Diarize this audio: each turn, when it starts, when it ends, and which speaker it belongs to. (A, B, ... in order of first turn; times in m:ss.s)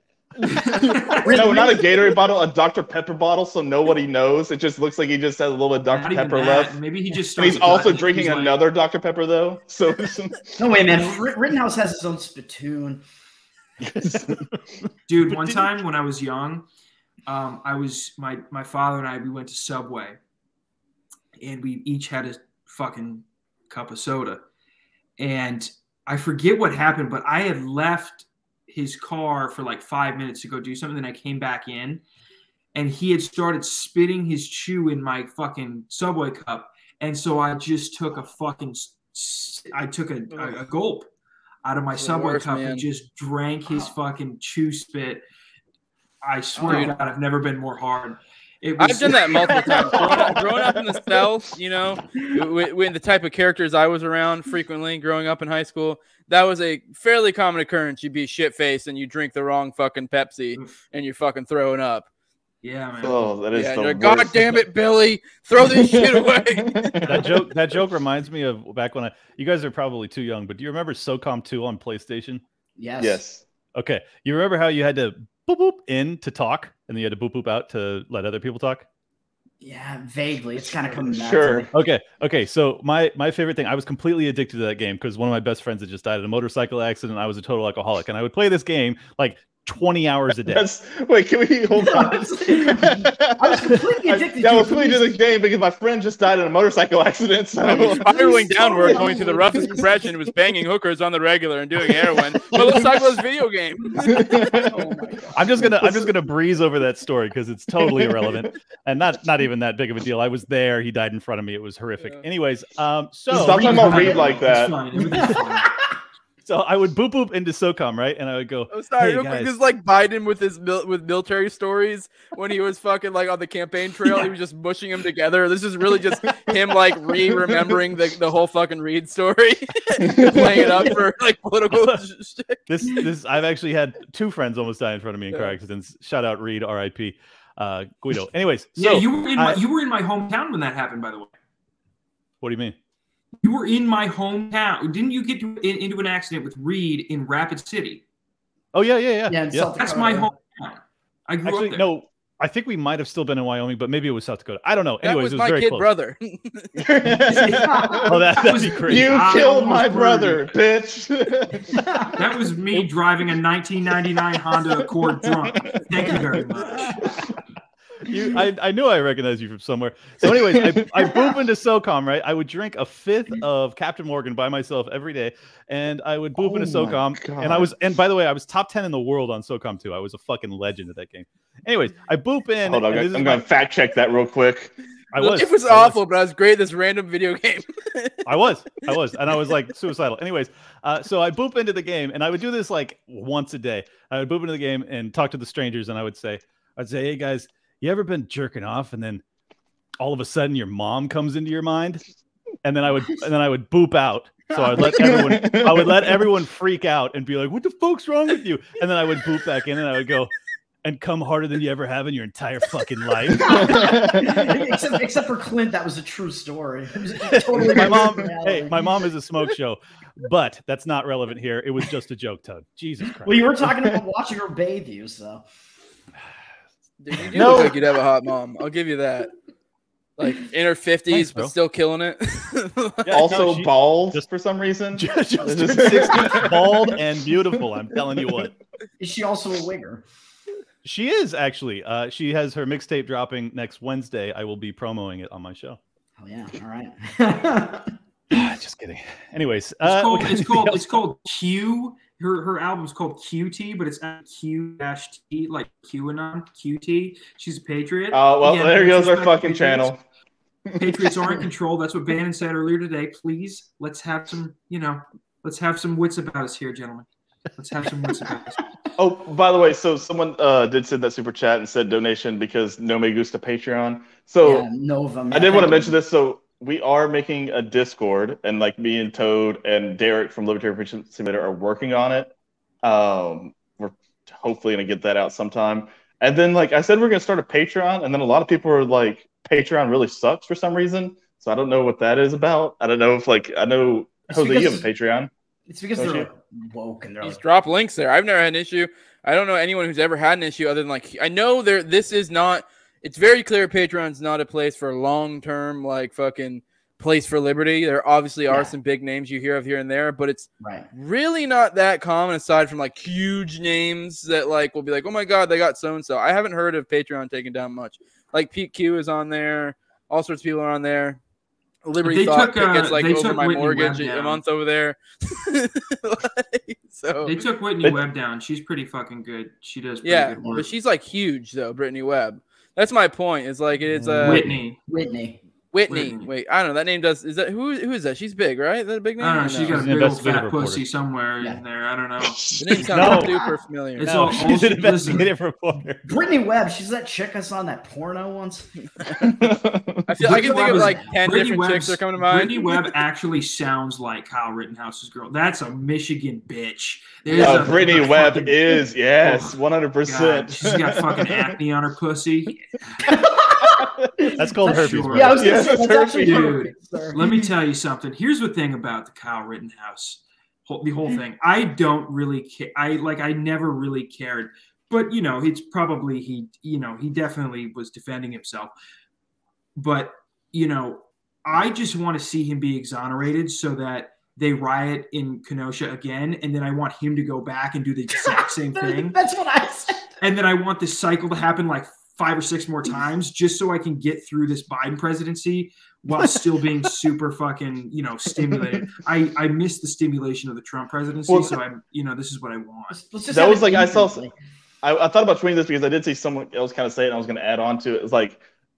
0:00.4-0:06.8 A
0:01.2-0:02.1 B
0:05.9-0:08.6 C
0:07.3-0:10.6 A
0:10.6-0:13.0 B
0:13.9-0:14.4 A
0:15.1-0:16.6 C
0:15.3-0:15.6 D
0:17.2-0:20.2 C
0:21.4-0:24.4 C
0:25.2-0:32.0 C
0:32.7-0:41.1 C
0:41.6-0:45.2 C
0:41.9-0:42.8 E
0:46.2-0:50.4 C
0:46.6-0:46.9 E
0:48.8-1:02.1 E
0:49.3-0:51.2 A
1:02.6-1:03.3 C
1:03.0-1:04.6 A
1:03.5-1:07.3 E
1:05.6-1:07.5 A
1:07.0-1:12.4 D
1:12.8-1:13.2 B
1:13.0-1:13.4 A
1:13.7-1:18.8 D
1:19.6-1:21.7 B
1:21.1-1:21.7 A
1:21.7-1:30.6 D
1:30.5-1:39.4 A
1:31.8-1:35.1 B
1:37.6-1:44.6 E
1:37.9-1:39.9 B
1:44.0-1:44.7 A
1:44.6-1:45.7 B
1:45.3-1:54.2 D
1:47.8-1:48.4 A
1:53.3-1:54.8 A
1:53.3-1:55.8 C
1:55.0-1:55.9 B
1:56.4-1:59.5 D
1:58.7-2:12.6 E
2:10.0-2:10.9 A
2:11.7-2:12.0 D
2:12.7-2:19.6 D
2:15.3-2:15.6 E
2:18.8-2:21.3 C
2:22.4-2:22.7 D
2:23.4-2:28.0 C
2:28.7-2:29.7 D
2:29.3-2:30.3 B
2:29.8-2:31.8 C
2:31.4-2:35.9 D
2:35.0-2:36.9 E
2:36.8-2:38.2 A
2:37.3-2:40.4 C
2:37.6-2:38.0 B
2:38.1-2:39.4 D
2:38.9-2:41.7 A
2:41.7-2:42.2 B
2:42.2-2:47.0 C
2:45.3-2:45.8 A
2:48.1-3:03.5 D
2:50.2-2:51.1 A
2:56.4-2:57.7 A
3:02.6-3:04.7 A
3:05.1-3:06.0 D
3:05.2-3:08.2 E
3:08.2-3:19.2 D
3:20.0-3:22.0 D
3:22.6-3:30.3 D
3:24.5-3:24.9 B
3:25.0-3:26.1 A
3:30.8-3:33.8 D
3:33.4-3:38.7 B
3:33.4-3:34.4 A
3:37.4-3:43.7 D
3:43.2-3:45.4 B
3:47.0-3:49.3 E
3:47.3-3:47.8 A
3:50.2-3:53.4 E
3:51.1-3:51.5 D
3:53.1-3:56.9 A
3:53.1-3:54.2 D
3:55.0-3:58.6 D
3:59.0-4:00.0 B
4:00.8-4:05.8 D
4:06.2-4:07.9 B
4:08.3-4:10.8 D
4:09.8-4:19.9 C
4:18.1-4:20.0 A
4:20.6-4:21.4 A
4:20.8-4:28.7 C
4:29.0-4:34.7 A
4:34.4-4:35.9 B
4:35.3-4:42.3 A
4:42.8-4:55.3 A
4:54.3-4:54.8 B
4:55.7-4:57.4 B
4:56.0-4:56.3 A
4:57.2-5:21.2 E
5:10.6-5:10.9 B
5:21.8-5:27.4 E
5:22.0-5:24.4 C
5:27.2-5:30.7 C
5:30.0-5:34.5 E
5:33.9-5:34.6 D
5:34.2-5:34.8 C
5:34.9-5:35.4 B
5:35.7-5:39.8 E
5:35.9-5:36.3 C
5:39.2-5:42.8 C
5:39.7-5:40.8 D
5:42.2-5:42.8 A
5:42.6-5:44.5 E
5:42.9-5:43.3 D
5:43.0-5:43.5 B
5:44.0-5:45.3 C
5:44.0-5:46.0 D
5:46.0-5:48.7 B
5:49.2-5:50.2 A
5:50.1-5:52.8 E
5:50.2-6:02.8 C
5:50.4-5:51.2 B
5:57.3-5:57.6 B
5:57.4-6:01.6 A
6:03.0-6:03.9 B
6:03.8-6:04.1 A
6:04.4-6:05.5 D
6:04.6-6:18.7 C
6:04.6-6:07.4 B
6:05.4-6:06.5 A
6:19.8-6:29.2 C
6:28.7-6:30.1 B
6:30.2-6:43.0 C
6:41.3-6:41.6 A
6:42.9-6:44.3 B
6:43.3-6:44.2 A
6:44.8-6:48.4 A